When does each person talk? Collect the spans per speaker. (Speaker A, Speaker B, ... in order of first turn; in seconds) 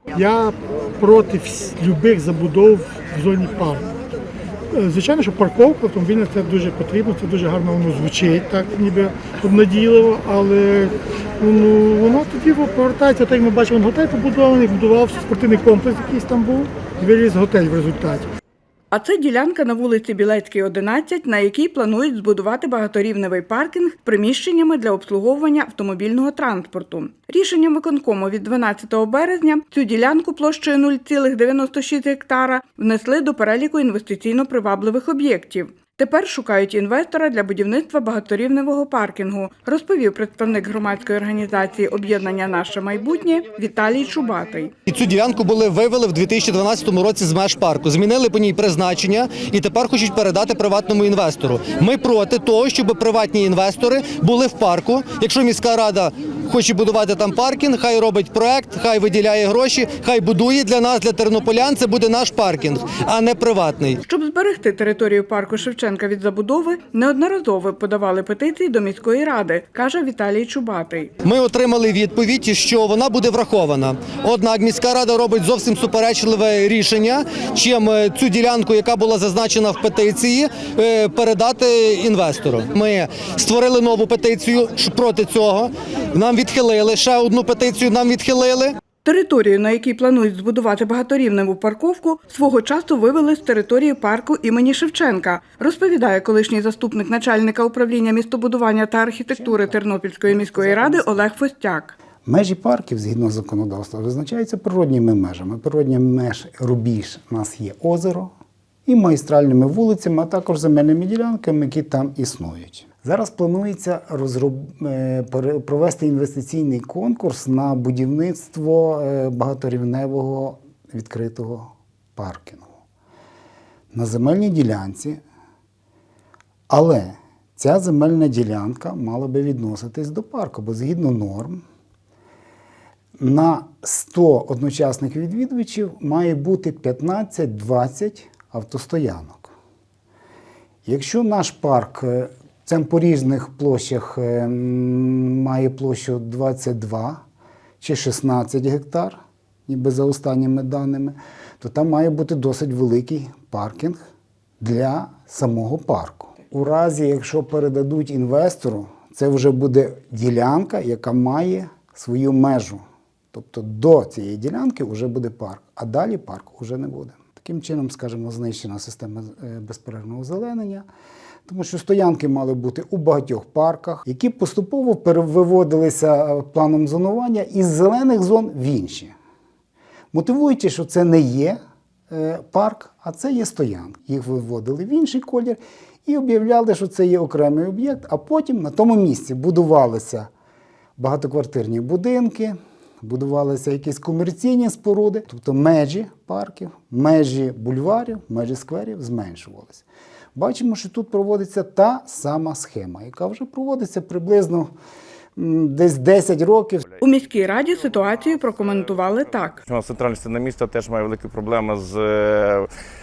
Speaker A: 0.1-3.9, 4.7-18.3
Speaker B: 18.9-44.7, 64.0-71.1, 89.0-101.9, 207.0-209.6
Speaker C: 44.9-64.0, 71.2-88.7
Speaker D: 99.3-101.5, 102.2-108.3, 108.9-122.8, 123.9-125.2, 126.7-131.6, 133.2-139.5, 140.8-147.2, 147.8-154.0, 154.6-170.8, 171.5-179.1, 180.1-181.6, 182.1-190.3, 191.0-204.7, 205.4-206.8
Speaker E: 206.8-212.7